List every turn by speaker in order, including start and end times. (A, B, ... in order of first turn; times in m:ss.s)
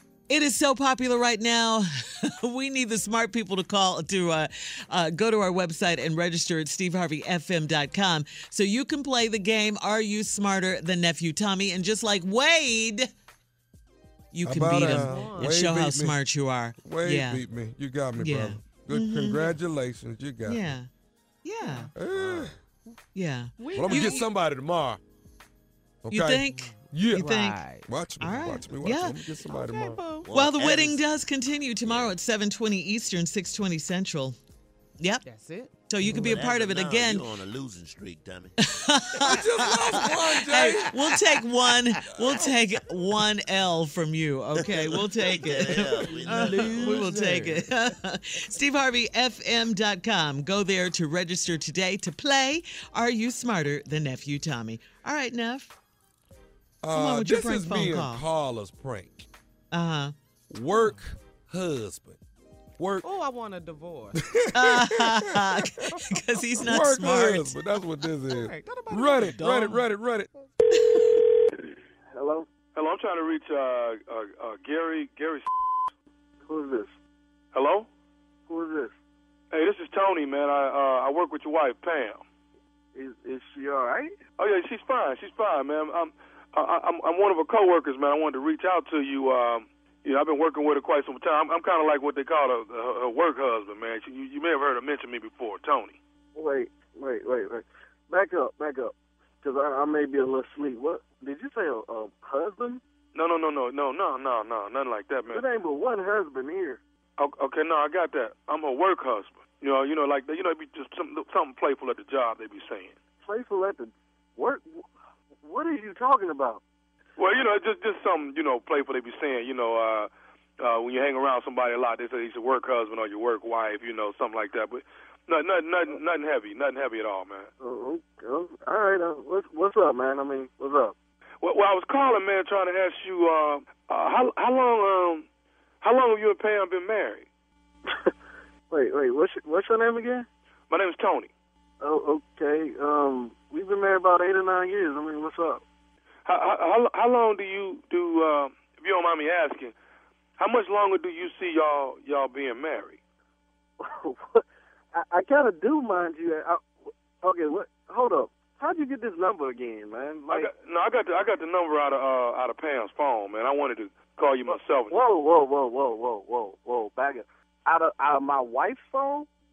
0:00.3-0:13.1 A
0:14.3-0:17.4 A
0:14.4-0:16.2 B
0:14.7-0:15.6 C
0:16.8-0:20.7 B
0:18.1-0:19.5 A
0:20.4-0:20.9 A
0:21.4-0:21.9 A
0:21.6-0:21.9 C
0:21.9-0:22.5 B
0:22.0-0:22.5 D
0:23.1-0:24.2 A
0:23.6-0:24.3 C
0:23.7-0:25.0 B
0:26.0-0:30.0 B
0:26.1-0:27.6 A
0:26.7-0:27.9 C
0:28.2-0:29.2 A
0:29.4-0:30.3 C
0:30.2-0:31.1 D
0:30.3-0:34.4 A
0:31.8-0:32.2 D
0:35.0-0:35.2 A
0:35.2-0:35.7 C
0:35.9-0:37.3 A
0:36.0-0:38.5 D
0:36.0-0:36.4 B
0:38.6-0:55.7 A
0:39.2-0:42.0 D
0:39.2-0:40.9 B
0:42.2-0:42.5 B
0:44.5-0:47.0 D
0:46.0-0:47.6 C
0:56.8-0:59.3 B
0:56.9-0:58.2 A
0:59.7-1:00.1 A
1:00.5-1:02.2 B
1:00.7-1:01.0 C
1:02.8-1:03.0 B
1:03.0-1:04.2 C
1:04.2-1:06.0 B
1:04.5-1:07.6 A
1:06.6-1:10.3 B
1:08.3-1:09.9 C
1:12.1-1:12.5 E
1:12.7-1:15.5 F
1:16.4-1:16.9 E
1:17.5-1:17.9 F
1:18.5-1:18.9 E
1:19.5-1:22.2 F
1:22.9-1:24.1 E
1:24.4-1:36.0 F
1:36.3-1:42.8 E
1:43.1-1:45.4 F
1:45.3-1:46.8 E
1:47.2-1:52.9 F
1:53.2-1:54.9 E
1:55.4-1:56.6 E
1:57.2-2:07.5 F
2:07.6-2:10.9 E
2:11.4-2:15.2 F
2:15.8-2:17.2 F
2:18.7-2:20.2 E
2:20.7-2:21.3 F
2:21.8-2:25.6 E
2:26.2-2:29.7 F
2:30.4-2:33.0 F
2:33.8-2:34.4 E
2:34.9-2:36.6 E
2:37.2-2:40.5 E
2:40.3-2:45.0 F
2:44.5-2:49.3 E